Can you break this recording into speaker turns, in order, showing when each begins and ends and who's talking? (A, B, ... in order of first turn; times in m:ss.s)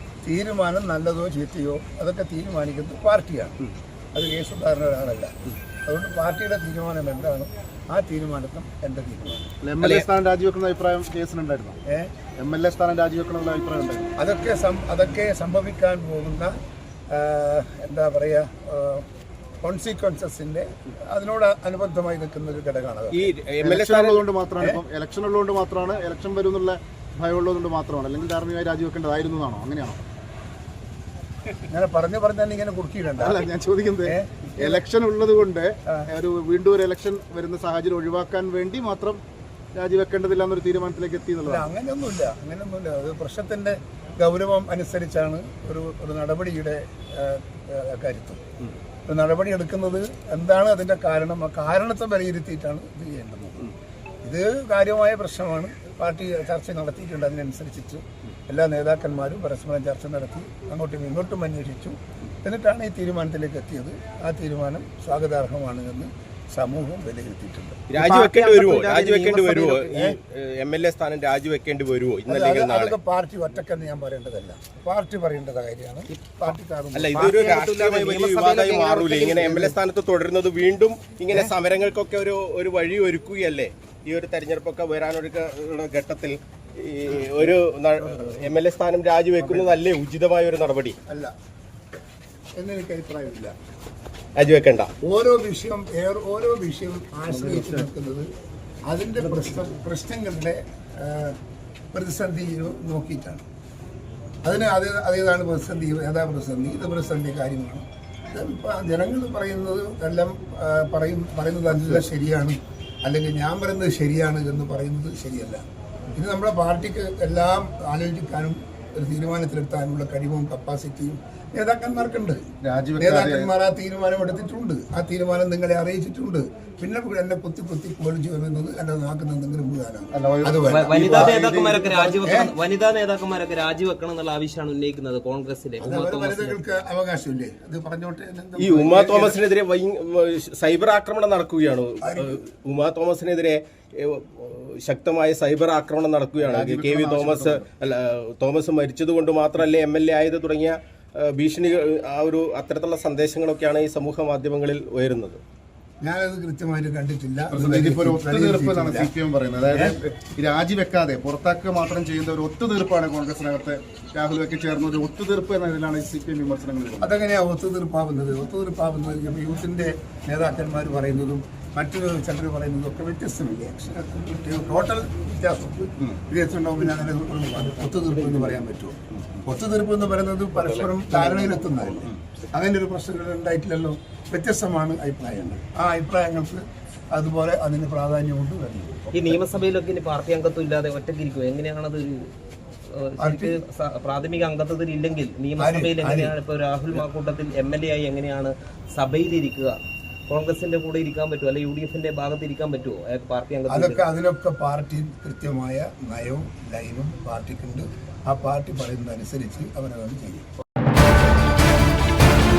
0:00.2-0:03.6 A
0:04.1-0:05.3 A
0:05.8-0:09.5 A
0:09.6-0:11.8 B
0:11.9-0:12.1 A
0:12.4-0:14.1 B
0:14.2-0:16.5 A
0:17.1-0:19.0 A
0:19.6-0:23.3 A
0:23.1-0:24.2 C
0:23.6-0:30.0 B
0:31.7-0:33.4 A
0:33.2-0:39.2 B
0:34.0-0:34.8 A
0:39.7-0:41.7 B
0:41.4-0:48.4 A
0:49.1-0:53.7 A
0:54.2-1:07.8 A
1:07.9-1:13.0 C
1:07.9-1:10.2 D
1:12.3-1:17.2 A
1:16.1-1:16.5 D
1:16.9-1:31.0 C
1:17.1-1:19.8 D
1:29.4-1:29.8 B
1:31.1-1:31.3 A
1:32.6-1:33.5 A
1:34.4-1:34.9 C
1:35.0-1:38.3 A
1:37.3-1:37.9 B
1:38.9-1:41.4 A
1:39.2-1:39.7 B
1:41.9-1:43.4 A
1:44.4-2:02.4 A
2:02.6-2:03.5 B
2:03.0-2:12.5 A
2:10.1-2:11.8 B
2:10.7-2:16.6 D
2:15.8-2:19.4 A
2:18.6-2:35.4 C
2:22.0-2:22.4 A
2:26.4-2:27.6 B
2:36.0-2:39.1 A
2:37.5-2:47.1 B
2:39.7-2:40.0 A
2:47.0-3:09.4 A
3:09.1-3:12.2 D
3:12.9-3:19.8 D
3:13.2-3:13.6 A
3:15.6-3:16.4 A
3:20.3-3:24.0 D
3:23.7-3:30.4 A